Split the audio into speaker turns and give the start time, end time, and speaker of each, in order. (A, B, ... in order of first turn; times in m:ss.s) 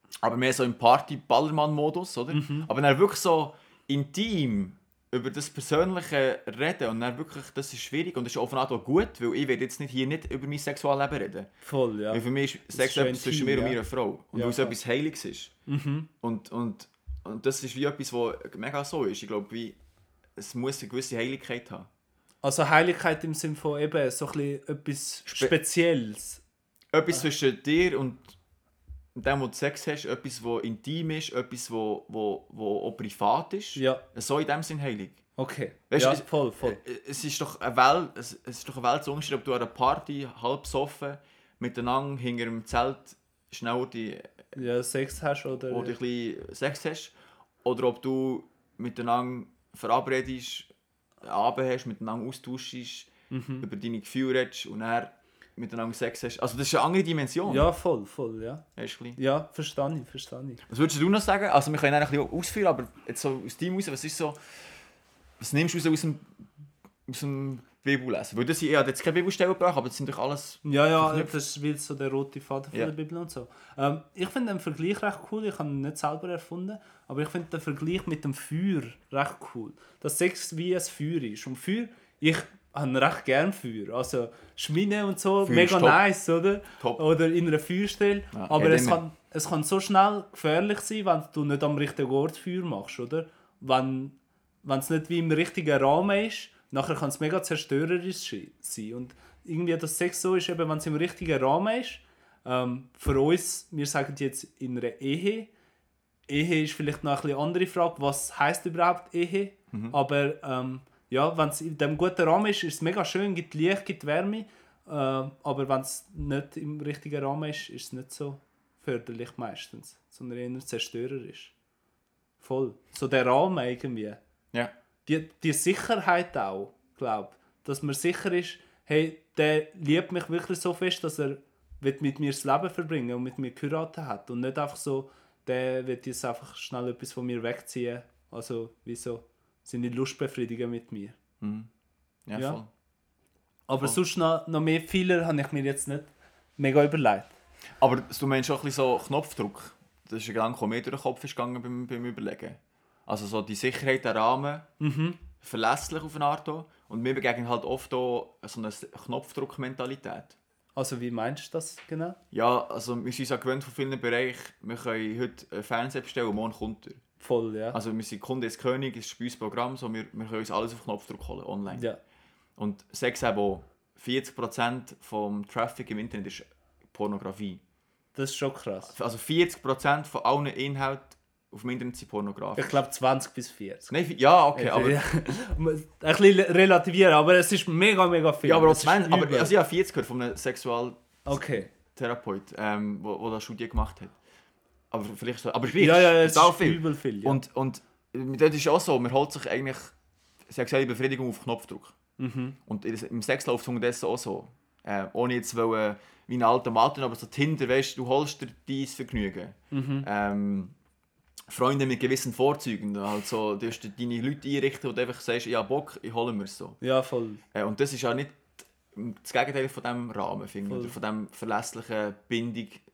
0:00.2-0:11.5 A
0:02.3-0:02.7 B
0:11.6-0:12.2 B
0:12.1-0:15.5 A
0:12.7-0:13.8 B
0:14.3-0:14.8 B
0:15.7-0:16.1 B
0:16.2-0:19.8 A
0:20.4-0:21.9 A
0:22.4-0:26.4 B
0:25.3-0:25.5 A
0:26.9-0:28.3 A
0:29.2-0:35.2 A
0:33.8-0:34.0 B
0:35.4-0:36.8 B
0:35.9-0:44.4 A
0:44.6-0:46.0 B
0:45.7-0:47.1 A
0:47.6-0:50.7 A
0:51.2-0:57.7 A
0:53.3-0:53.7 B
0:57.5-0:58.6 B
0:58.8-0:59.2 A
0:59.2-1:00.6 B
1:00.7-1:04.4 A
1:05.4-1:06.3 A
1:07.1-1:11.3 A
1:10.6-1:45.5 B
1:25.4-1:26.0 A
1:28.3-1:29.0 A
1:46.3-2:01.5 B
2:02.4-2:04.2 B
2:05.1-2:21.2 B
2:21.4-2:21.7 A
2:22.2-2:22.7 A
2:23.7-2:27.3 B
2:27.8-2:34.7 A
2:34.8-2:35.2 B
2:35.4-2:40.4 A
2:40.8-2:42.2 B
2:42.3-2:47.0 A
2:47.2-2:47.8 B
2:47.7-2:51.9 A
2:51.7-2:52.0 B
2:52.6-2:57.6 A
2:58.2-2:58.9 B
2:58.9-3:02.8 A
3:02.6-3:03.9 B
3:03.9-3:05.0 A
3:04.6-3:09.5 B
3:08.4-3:14.2 A
3:11.2-3:11.7 B
3:14.9-3:19.9 A
3:15.8-3:17.4 B
3:20.5-3:22.0 A
3:22.2-3:22.6 B
3:22.7-3:30.8 A
3:29.7-3:30.1 B
3:31.5-3:36.8 A
3:36.8-3:37.4 B
3:37.5-3:42.8 A
3:40.7-3:41.0 B